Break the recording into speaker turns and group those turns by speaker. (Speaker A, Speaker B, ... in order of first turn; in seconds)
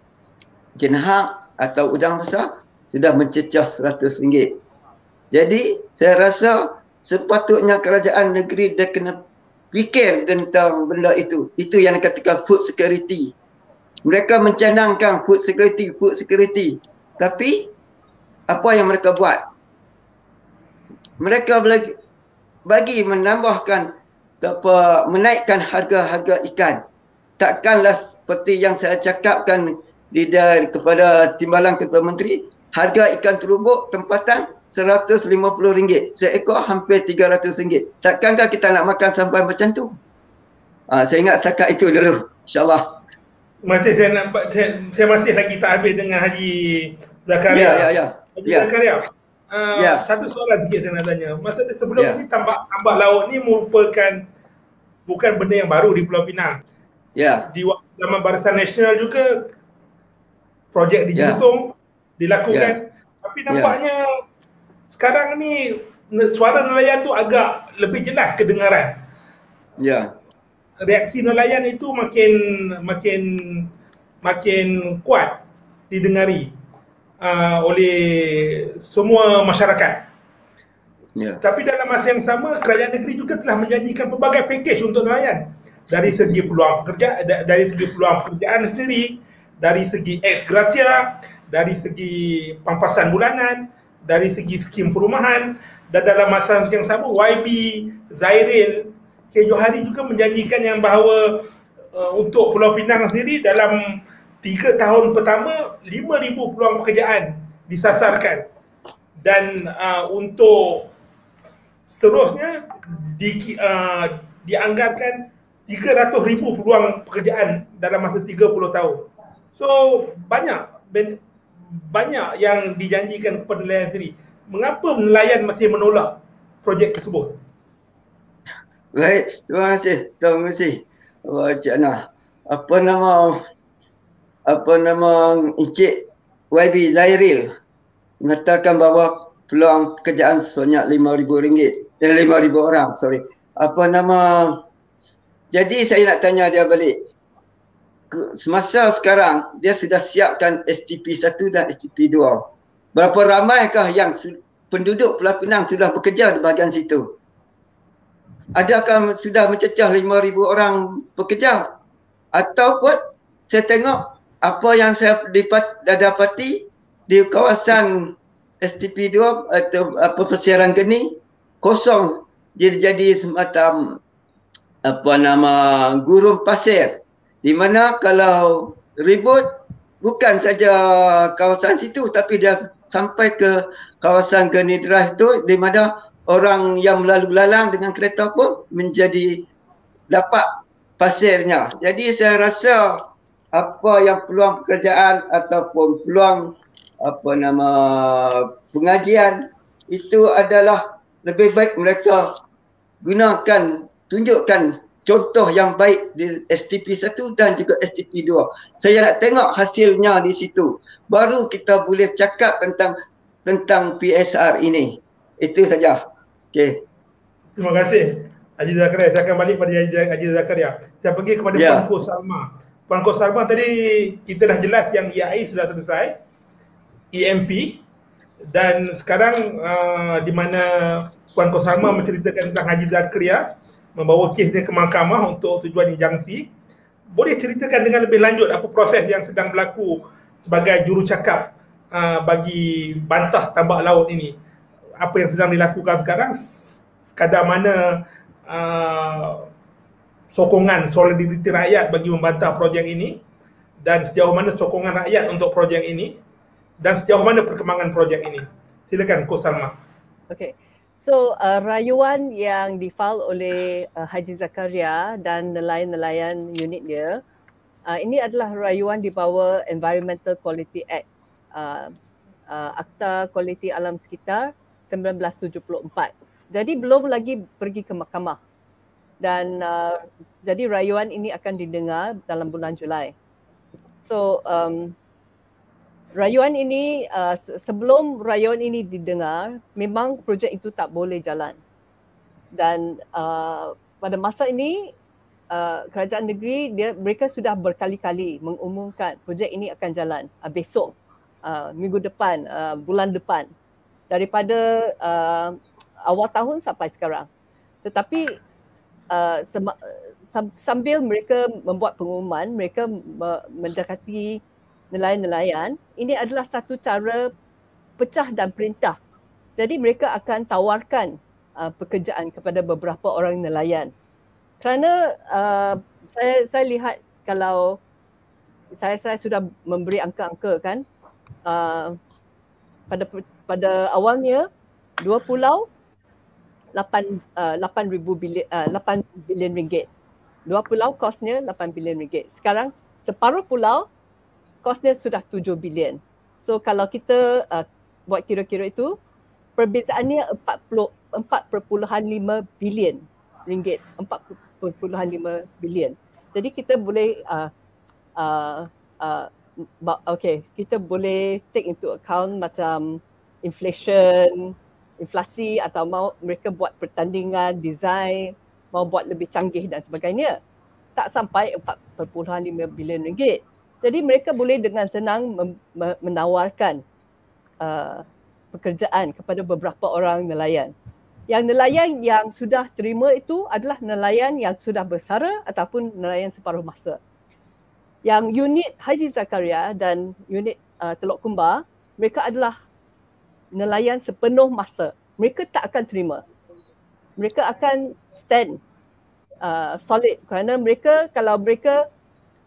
Speaker A: 0.8-4.6, 5.3-9.2, 9.7-13.3, 14.0-17.7, 18.5-19.4, 21.2-21.9, 22.6-26.8, 27.4-40.0, 40.9-42.8, 47.5-48.7, 49.8-50.0, 57.1-57.5, 61.1-61.4, 62.5-62.8, 63.5-63.8, 69.8-70.1, 81.2-81.4, 86.0-86.5, 128.9-133.4, 134.5-137.5, 138.2-144.6, 145.5-147.0, 148.1-157.1, 158.6-161.7, 162.3-174.0, 174.8-179.5, 180.0-189.5, 190.1-190.4, 191.0-193.0, 193.5-202.3, 203.0-212.9, 213.4-216.0, 216.5-216.8, 221.5-221.8
Speaker B: 43.6-54.2, 55.1-56.6, 57.5-59.2, 60.7-64.0, 64.9-68.9, 70.8-73.7, 74.2-76.5, 77.2-80.1, 81.4-108.4, 109.2-110.9, 111.9-121.2, 121.8-127.4, 217.6-226.1, 227.1-227.8, 228.5-236.5, 237.1-244.3, 245.0-249.4, 250.3-253.2, 253.8-256.1, 256.8-259.7
Speaker C: 260.3-267.2, 267.9-271.9, 272.5-278.4, 279.2-283.1, 284.0-284.9, 286.1-291.6, 292.5-294.9, 295.5-303.5, 304.1-307.3, 307.8-308.3, 309.1-309.8, 310.3-314.4, 314.9-317.3, 318.0-319.0, 319.6-323.9, 324.6-327.8, 328.7-330.8, 331.4-332.0, 332.9-334.5, 335.0-335.7, 336.7-339.9, 340.5-343.9, 344.6-349.0, 349.6-357.5, 358.1-370.4, 370.9-376.8, 377.6-380.7, 381.3-387.0, 388.0-392.6, 393.5-396.2, 397.2-398.6, 399.4-401.8